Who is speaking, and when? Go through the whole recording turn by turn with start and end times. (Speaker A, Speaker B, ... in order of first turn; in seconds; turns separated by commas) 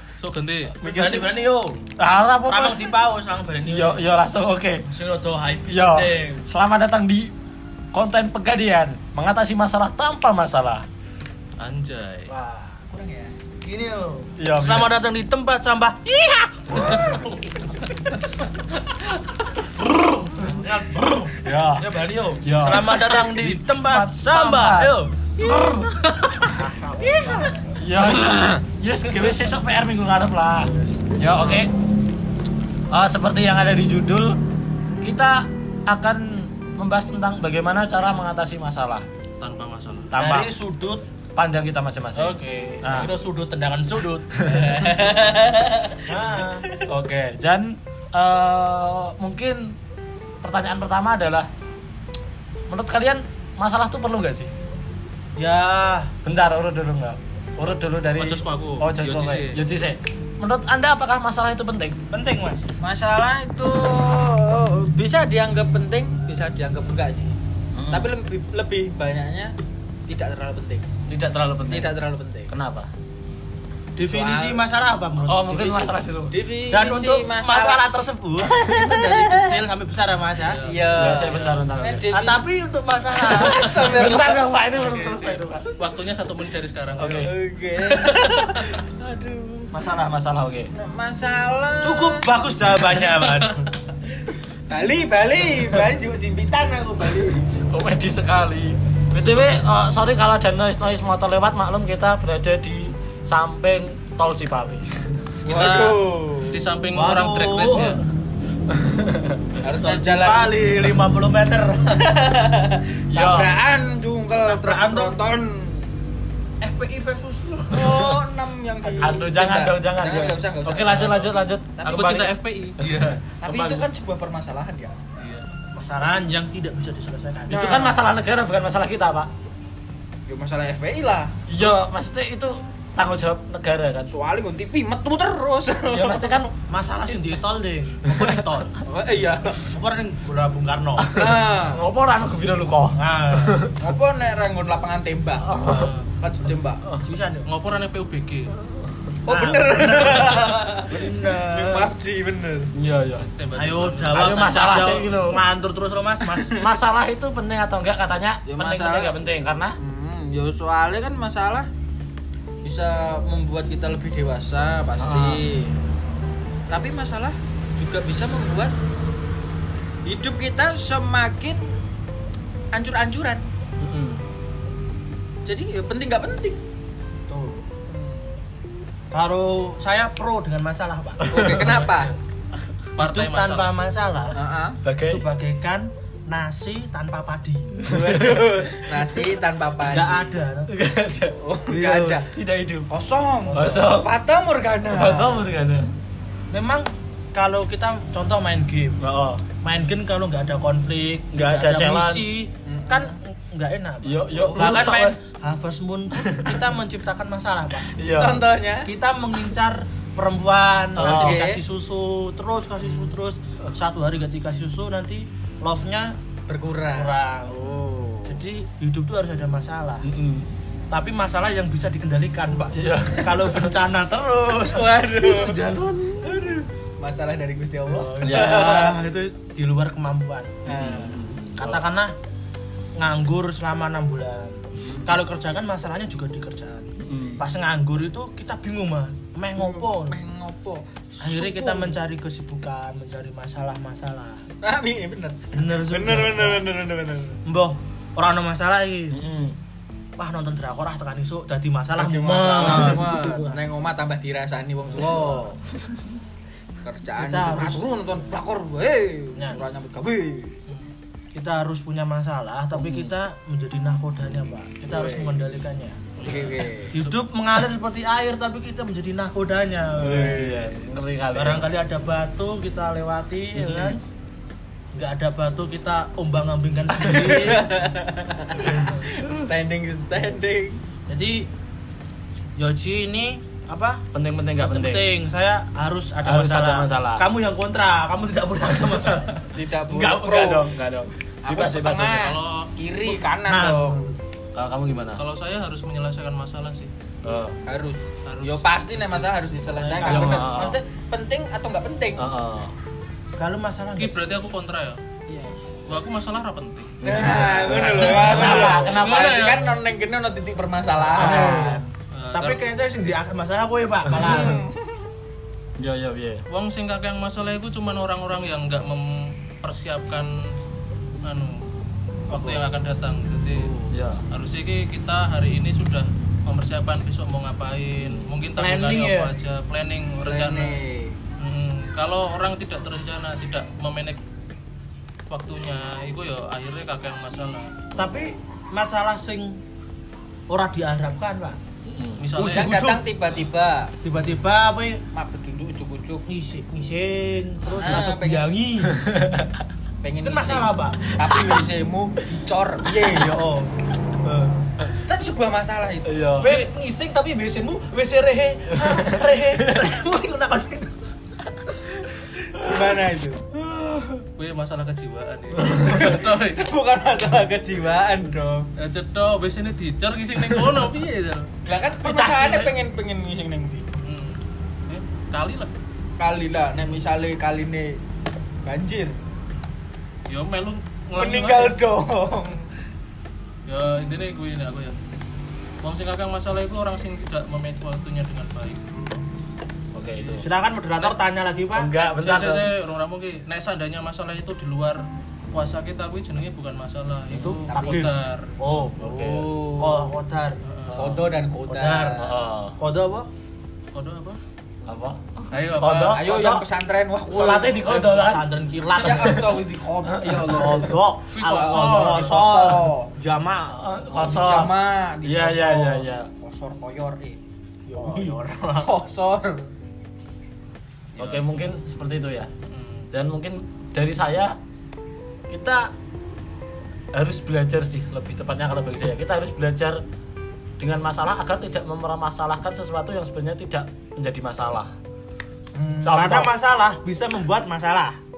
Speaker A: 0.2-0.8, Speaker B: 0.8-1.2, Speaker C: 0.8-1.8, Speaker B: 2.0-3.0, Speaker C: 2.5-4.1, Speaker B: 3.6-4.9, Speaker C: 4.9-6.5, Speaker B: 5.7-7.3, Speaker B: 7.9-10.8, Speaker A: 11.6-12.3, Speaker C: 12.3-12.8, Speaker D: 12.9-13.3, Speaker C: 13.6-17.2, Speaker B: 14.4-14.9, Speaker B: 16.7-17.1, Speaker B: 19.7-20.5, Speaker C: 20.3-25.1, Speaker B: 21.2-21.9, Speaker B: 22.4-26.0, Speaker A: 25.4-26.5, Speaker C: 26.4-27.6, Speaker A: 27.1-27.5, Speaker B: 27.8-31.7, Speaker C: 30.7-31.6, Speaker B: 32.9-34.4, Speaker B: 35.0-39.0, Speaker A: 39.4-40.1, Speaker C: 40.1-41.0, Speaker B: 40.1-40.5, Speaker B: 41.3-43.1, Speaker C: 42.1-44.6, Speaker D: 44.4-46.8, Speaker C: 46.1-46.6, Speaker B: 46.9-49.8, Speaker B: 50.4-51.5, Speaker B: 52.7-54.5, Speaker C: 55.4-56.1, Speaker B: 56.2-62.0, Speaker A: 58.2-59.6, Speaker C: 62.1-62.6, Speaker D: 62.8-67.3, Speaker B: 67.7-68.1, Speaker D: 67.9-69.5, Speaker D: 70.1-70.9, Speaker B: 71.1-71.9, Speaker D: 71.7-72.5, Speaker B: 72.5-72.9, Speaker C: 74.0-76.0, Speaker D: 74.0-74.6, Speaker B: 75.2-76.4, Speaker D: 76.3-77.8, Speaker C: 76.7-80.7, Speaker D: 78.4-79.6, Speaker A: 80.4-81.7, Speaker D: 80.6-82.4, Speaker B: 80.9-82.1, Speaker C: 82.1-84.1, Speaker D: 83.2-84.4, Speaker B: 83.6-85.7, Speaker A: 84.7-87.3, Speaker B: 87.0-87.3, Speaker D: 87.0-89.7, Speaker C: 88.1-88.4, Speaker B: 89.7-90.7, Speaker D: 90.7-92.4, Speaker C: 91.8-93.7, Speaker A: 93.1-93.6, Speaker D: 94.7-97.5, Speaker B: 97.5-105.3, Speaker D: 105.4-106.6, Speaker A: 105.5-108.0, Speaker C: 106.9-108.0, Speaker B: 108.7-109.4, Speaker D: 109.6-110.5, Speaker C: 109.8-112.1, Speaker D: 112.0-115.9, Speaker B: 113.1-113.6, Speaker C: 114.4-115.2, Speaker C: 116.6-117.8, Speaker D: 117.7-122.2, Speaker B: 117.8-118.2, Speaker B: 119.0-123.9, Speaker A: 121.8-123.2, Speaker D: 123.4-125.0, Speaker A: 125.2-125.5, Speaker C: 125.7-127.8, Speaker B: 127.5-129.3, Speaker D: 127.5-128.0, Speaker D: 130.3-131.3, Speaker B: 131.5-134.1, Speaker D: 134.1-136.4, Speaker B: 135.9-136.5, Speaker C: 136.7-138.8, Speaker D: 138.8-139.7, Speaker C: 139.7-141.1, Speaker B: 141.0-143.9, Speaker D: 141.1-141.8, Speaker C: 142.9-143.6, Speaker D: 143.8-146.8, Speaker B: 145.4-145.9, Speaker A: 145.6-146.1, Speaker C: 147.0-147.5, Speaker A: 147.4-148.5, Speaker D: 149.2-152.7, Speaker C: 149.3-151.9, Speaker B: 152.7-153.2, Speaker A: 153.2-154.5, Speaker C: 153.5-156.6, Speaker B: 154.1-155.4, Speaker D: 156.4-156.6, Speaker B: 156.6-159.8, Speaker D: 158.4-159.1, Speaker D: 159.8-161.7, Speaker D: 162.6-165.8, Speaker B: 165.0-165.4, Speaker D: 166.7-168.7, Speaker D: 170.0-171.7, Speaker D: 172.7-173.4, Speaker B: 173.8-174.2, Speaker D: 175.4-176.6, Speaker C: 177.3-177.6, Speaker D: 177.9-178.4, Speaker C: 179.1-181.2, Speaker B: 181.2-181.9, Speaker D: 181.2-182.2, Speaker A: 181.6-182.1, Speaker A: 182.9-183.8, Speaker C: 183.0-184.4, Speaker D: 184.3-184.8, Speaker B: 184.8-185.2, Speaker C: 185.1-188.2, Speaker D: 187.8-190.3, Speaker B: 187.9-188.7, Speaker C: 189.8-190.7, Speaker B: 190.7-191.4, Speaker D: 191.4-192.3, Speaker C: 191.7-192.2, Speaker B: 192.3-192.9, Speaker D: 192.9-195.5, Speaker B: 193.5-194.1, Speaker B: 194.9-195.9, Speaker C: 196.5-199.0, Speaker B: 199.0-199.4, Speaker C: 199.6-207.9, Speaker B: 201.3-202.5, Speaker D: 202.6-203.2, Speaker B: 204.0-205.2, Speaker D: 204.3-204.9, Speaker B: 206.2-206.6, Speaker B: 207.9-208.4, Speaker D: 208.1-208.9, Speaker C: 208.8-216.2, Speaker B: 211.0-211.4, Speaker D: 211.0-211.6, Speaker D: 212.8-213.1, Speaker D: 216.5-218.4, Speaker C: 216.9-217.7, Speaker C: 218.2-220.1, Speaker B: 220.0-220.5, Speaker C: 220.9-224.9, Speaker B: 222.7-223.7, Speaker D: 224.6-225.7, Speaker B: 225.2-226.3, Speaker D: 226.2-229.0, Speaker C: 227.9-232.1, Speaker B: 228.1-228.9, Speaker B: 230.7-231.8, Speaker D: 230.7-231.1, Speaker C: 233.0-240.2, Speaker B: 234.8-235.2, Speaker B: 237.0-237.4, Speaker D: 239.6-242.0, Speaker C: 241.2-244.4, Speaker D: 244.6-247.4, Speaker C: 245.5-246.7, Speaker C: 247.4-249.2, Speaker B: 249.1-249.6, Speaker C: 250.2-253.6, Speaker D: 251.9-255.8, Speaker B: 252.6-253.2, Speaker D: 256.8-260.6, Speaker C: 257.2-257.9, Speaker C: 261.3-266.0, Speaker B: 262.7-263.1, Speaker D: 264.9-265.4, Speaker A: 266.2-266.7, Speaker D: 266.2-266.9, Speaker C: 266.9-270.6, Speaker B: 270.0-271.7, Speaker D: 270.1-270.6, Speaker C: 271.3-274.0, Speaker B: 273.5-274.0, Speaker C: 274.9-277.6, Speaker D: 277.1-280.8, Speaker C: 281.1-281.5, Speaker C: 282.6-284.0, Speaker B: 284.1-285.1, Speaker C: 284.6-289.4, Speaker B: 286.2-287.3, Speaker D: 289.5-290.7, Speaker B: 289.9-292.3, Speaker D: 291.4-294.1, Speaker A: 292.1-292.7, Speaker C: 293.4-294.1, Speaker B: 294.5-295.2, Speaker A: 295.2-296.9, Speaker B: 297.2-297.6, Speaker D: 297.6-302.2, Speaker A: 298.2-299.6, Speaker C: 299.7-300.5, Speaker B: 300.0-300.8, Speaker B: 302.2-302.7, Speaker C: 303.4-304.3, Speaker A: 304.0-305.0, Speaker D: 305.3-305.5, Speaker A: 305.9-306.9, Speaker B: 307.0-309.5, Speaker D: 307.0-311.8, Speaker A: 307.7-309.8, Speaker C: 307.9-308.9, Speaker C: 311.1-314.6, Speaker A: 312.1-312.6, Speaker D: 314.1-315.1, Speaker B: 315.8-316.4, Speaker A: 316.5-320.5, Speaker A: 321.2-321.6, Speaker A: 322.3-330.8, Speaker B: 322.3-322.6, Speaker D: 323.6-323.8, Speaker B: 323.9-324.2, Speaker B: 328.0-328.3, Speaker C: 328.6-329.3, Speaker D: 330.2-331.2, Speaker A: 331.4-334.2, Speaker A: 335.3-337.8, Speaker B: 337.9-338.4, Speaker C: 338.0-339.6, Speaker C: 340.5-341.6, Speaker B: 341.8-342.2, Speaker A: 342.2-343.0, Speaker C: 342.3-343.0, Speaker D: 342.4-343.9, Speaker C: 344.0-345.0, Speaker D: 345.1-346.2, Speaker C: 346.2-349.0, Speaker D: 347.8-348.5, Speaker B: 348.9-349.6, Speaker D: 350.0-353.4, Speaker C: 350.2-351.1, Speaker B: 351.3-351.5, Speaker C: 353.1-353.7, Speaker B: 354.2-354.5, Speaker D: 354.9-356.2, Speaker B: 356.1-356.5, Speaker C: 356.4-361.0, Speaker A: 356.4-356.7, Speaker B: 358.9-359.8, Speaker D: 362.5-363.4, Speaker B: 363.6-364.2, Speaker A: 364.4-366.6, Speaker D: 365.6-368.7, Speaker A: 368.8-371.5, Speaker D: 371.6-373.9, Speaker B: 372.0-372.7, Speaker A: 374.0-375.7, Speaker D: 376.2-378.0, Speaker D: 378.6-379.2, Speaker A: 380.3-381.8, Speaker D: 381.2-382.7, Speaker A: 383.7-384.9, Speaker A: 385.8-389.1, Speaker B: 389.9-390.4, Speaker A: 390.1-390.4, Speaker C: 390.4-391.9, Speaker B: 391.7-392.7, Speaker A: 392.0-398.5, Speaker C: 397.3-399.0, Speaker D: 397.7-398.1, Speaker B: 399.0-399.5, Speaker D: 399.0-400.1, Speaker C: 399.8-400.6, Speaker A: 400.6-401.1, Speaker B: 400.9-401.2, Speaker D: 400.9-402.3, Speaker C: 401.6-402.2, Speaker B: 402.2-402.8, Speaker C: 402.8-403.3, Speaker A: 403.9-404.4, Speaker B: 404.9-406.6, Speaker A: 405.5-406.2, Speaker D: 406.1-408.1, Speaker B: 407.3-408.4, Speaker C: 407.9-409.5, Speaker D: 408.9-413.1, Speaker C: 410.2-413.9, Speaker A: 411.3-411.9, Speaker B: 411.5-412.4, Speaker B: 413.7-414.7, Speaker D: 414.1-417.4, Speaker B: 415.2-416.3, Speaker C: 417.9-418.9, Speaker D: 418.0-419.7, Speaker A: 421.1-421.5, Speaker B: 421.2-422.5, Speaker A: 422.7-423.1, Speaker B: 423.1-424.6, Speaker B: 425.5-425.9, Speaker B: 427.1-430.0, Speaker B: 430.8-434.9, Speaker D: 435.7-436.2, Speaker B: 436.0-436.5, Speaker C: 436.0-438.2